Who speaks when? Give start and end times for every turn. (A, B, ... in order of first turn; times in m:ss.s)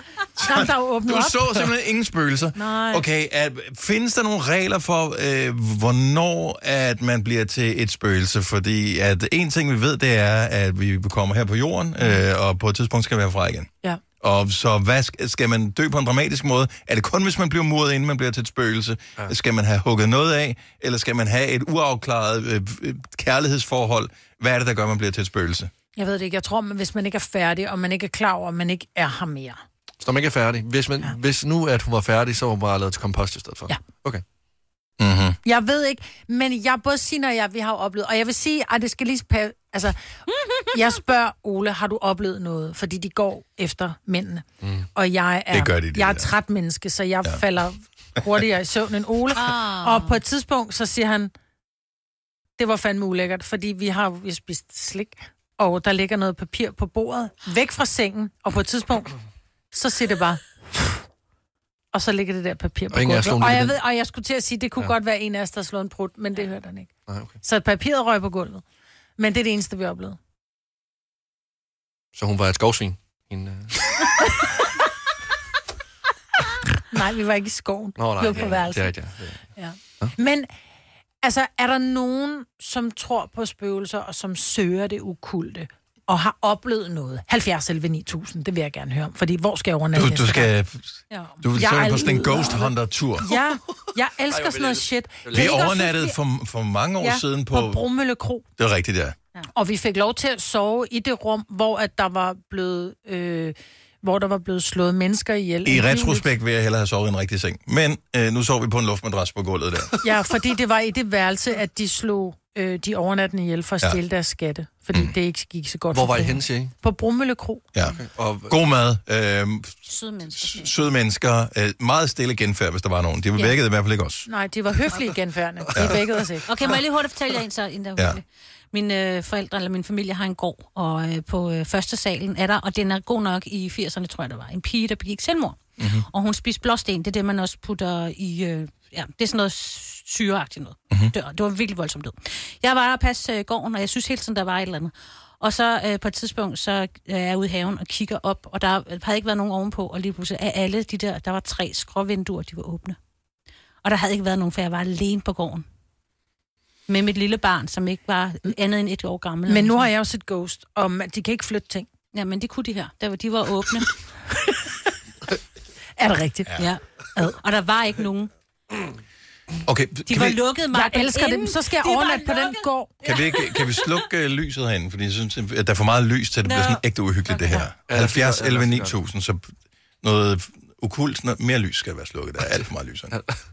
0:00.4-0:25.7 A
0:00.4-0:01.5 B
0:02.5-0:03.0 B
0:26.0-0:29.6 B
0:30.0-0:34.2 C
0:35.0-0:35.4 A
0:35.4-0:40.0 B
0:40.4-0:40.7 D
0:40.7-0:51.3 B
0:44.6-0:44.9 C
0:45.5-0:46.3 A
0:49.3-0:50.2 D
0:52.6-0:59.1 B
0:59.7-1:01.0 B
1:01.9-1:06.9 B
1:02.9-1:03.8 C
1:07.1-1:07.3 C
1:07.4-1:08.6 B
1:09.2-1:10.2 B
1:12.1-1:13.8 C
1:16.9-1:18.9 B
1:18.0-1:19.4 C
1:19.6-1:20.5 B
1:21.2-1:30.5 B
1:29.9-1:33.3 A
1:31.1-1:36.1 B
1:34.3-1:35.6 C
1:35.3-1:37.8 A
1:37.0-1:38.4 B
1:38.6-1:39.2 A
1:39.5-1:46.3 B
1:45.6-1:49.9 A
1:50.0-1:57.6 B
1:55.9-1:56.7 C
1:57.7-2:04.3 A
1:57.9-1:58.5 C
1:59.8-2:00.7 D
2:04.3-2:06.5 B
2:05.7-2:06.0 A
2:06.5-2:33.0 D
2:15.8-2:16.0 A
2:33.8-2:35.6 D
2:36.9-2:39.9 D
2:39.5-2:41.9 B
2:42.1-2:44.0 D
2:46.0-2:46.5 B
2:46.6-2:48.3 D
2:49.6-2:50.4 A
2:50.1-2:54.0 D
2:50.7-2:52.9 B
2:53.0-3:03.2 A
2:56.4-2:57.6 D
2:57.9-2:59.0 C